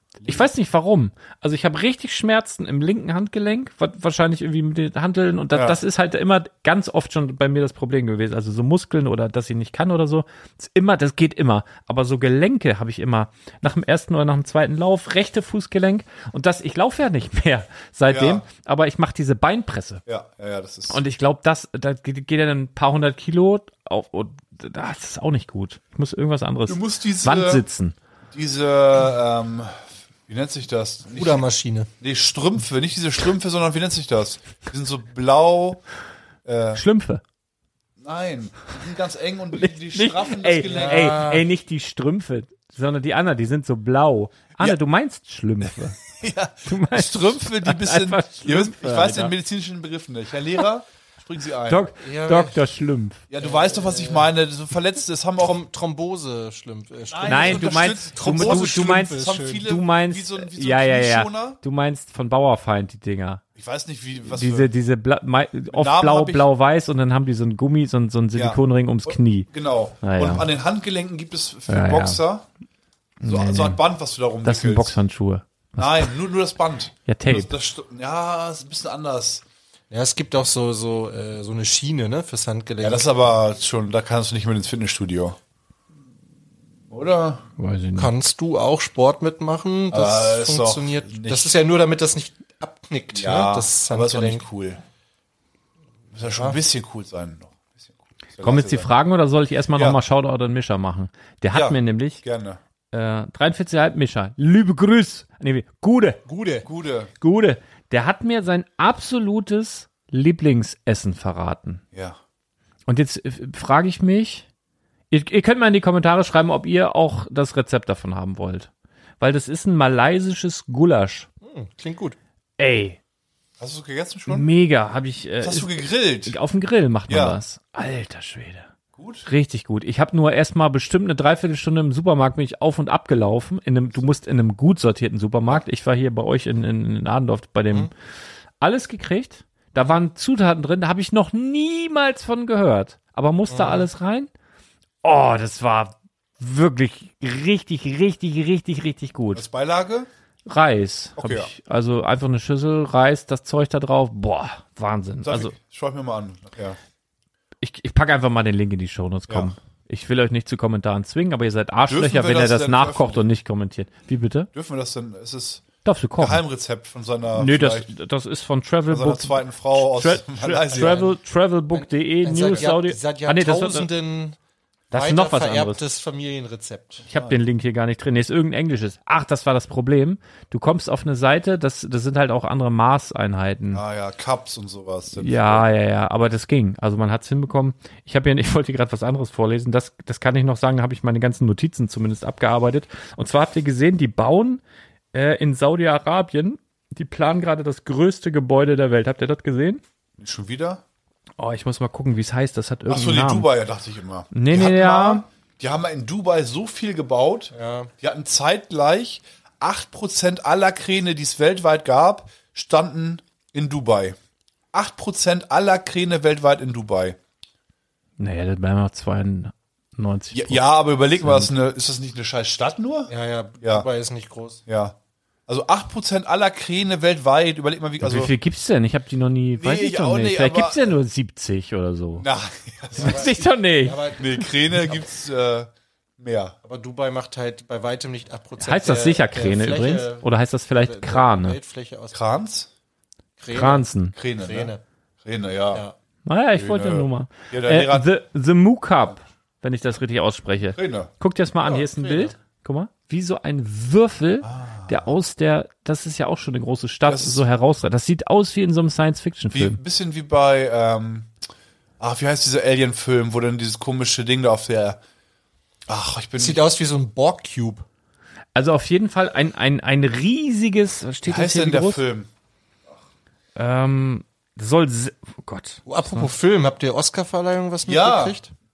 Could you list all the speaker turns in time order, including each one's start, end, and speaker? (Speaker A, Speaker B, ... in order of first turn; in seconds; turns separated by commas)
Speaker A: 0.2-0.5, Speaker B: 0.2-20.0, Speaker A: 5.5-5.8, Speaker A: 18.1-18.4, Speaker A: 20.1-21.0, Speaker B: 20.9-27.9, Speaker A: 26.7-27.6, Speaker A: 28.3-31.4, Speaker C: 31.1-31.9, Speaker A: 32.0-35.8, Speaker A: 36.4-36.8, Speaker B: 36.7-37.2, Speaker A: 38.0-41.3, Speaker B: 39.5-46.0, Speaker C: 40.6-41.4, Speaker A: 45.6-51.9, Speaker B: 46.6-49.3, Speaker B: 51.7-53.2, Speaker C: 52.0-52.6, Speaker A: 53.3-55.6, Speaker C: 53.4-54.3, Speaker C: 55.4-59.6, Speaker A: 57.1-61.6, Speaker B: 57.2-63.4, Speaker A: 63.6-64.7, Speaker B: 64.2-69.5, Speaker A: 65.7-66.5, Speaker A: 68.3-72.5, Speaker B: 70.0-70.5, Speaker B: 71.7-72.2, Speaker B: 73.2-73.8, Speaker A: 73.2-75.0, Speaker B: 74.4-76.2, Speaker A: 75.8-79.4, Speaker B: 77.0-77.5, Speaker C: 79.9-83.1, Speaker A: 82.8-85.4, Speaker A: 86.9-87.4, Speaker B: 87.6-88.1, Speaker C: 88.0-94.4, Speaker A: 89.9-91.5, Speaker A: 93.1-94.8, Speaker A: 96.1-98.9, Speaker C: 96.2-96.6, Speaker B: 98.4-102.2, Speaker A: 99.7-100.0, Speaker A: 101.5-102.6, Speaker B: 102.9-106.2, Speaker C: 106.2-106.7, Speaker A: 106.6-107.1, Speaker B: 107.2-111.8, Speaker B: 112.9-114.5, Speaker B: 115.1-118.7, Speaker B: 119.2-121.3, Speaker C: 121.4-122.2, Speaker B: 122.6-123.0, Speaker A: 123.6-124.5, Speaker B: 124.3-128.7, Speaker A: 125.4-126.3, Speaker A: 127.1-127.4, Speaker A: 129.0-129.3, Speaker B: 129.2-137.9, Speaker B: 138.6-144.3, Speaker C: 143.5-143.9, Speaker B: 145.0-149.4, Speaker A: 149.3-150.1, Speaker B: 150.4-155.5, Speaker A: 151.2-151.5, Speaker A: 155.2-156.8, Speaker B: 157.6-164.5, Speaker A: 161.9-163.3, Speaker A: 164.5-165.7, Speaker B: 165.8-166.4, Speaker A: 166.2-167.9, Speaker B: 167.3-173.9, Speaker A: 168.9-171.0, Speaker C: 170.7-171.1, Speaker C: 171.7-174.4, Speaker B: 174.9-175.8, Speaker C: 174.9-177.0, Speaker B: 177.1-183.8, Speaker A: 177.1-177.4, Speaker A: 183.7-185.7, Speaker B: 185.2-194.6, Speaker B: 195.1-199.8, Speaker A: 200.2-200.8, Speaker B: 201.4-203.5, Speaker A: 202.9-214.2, Speaker B: 204.3-205.2, Speaker C: 207.5-207.9, Speaker A: 214.7-217.2, Speaker B: 218.2-220.6, Speaker A: 220.3-223.1, Speaker B: 221.2-221.5, Speaker C: 223.1-224.6, Speaker A: 224.7-224.9, Speaker A: 225.5-228.3, Speaker B: 228.0-232.2, Speaker A: 229.6-231.0, Speaker A: 232.2-233.4, Speaker B: 232.9-234.0, Speaker C: 232.9-235.0, Speaker A: 234.2-236.6, Speaker C: 236.6-242.2, Speaker B: 238.6-241.6, Speaker A: 242.1-242.7, Speaker C: 243.4-244.8, Speaker B: 243.5-244.1, Speaker A: 244.1-244.7, Speaker A: 245.2-245.8, Speaker B: 246.2-259.8, Speaker A: 246.5-248.1, Speaker A: 250.7-251.1, Speaker C: 251.6-252.3, Speaker A: 254.4-255.1, Speaker A: 257.1-257.4, Speaker A: 259.5-261.3, Speaker A: 262.0-265.0, Speaker A: 265.9-266.6, Speaker C: 266.4-267.8, Speaker B: 268.5-272.0, Speaker A: 271.2-272.3, Speaker B: 273.5-276.3, Speaker C: 275.9-278.5, Speaker A: 277.8-278.4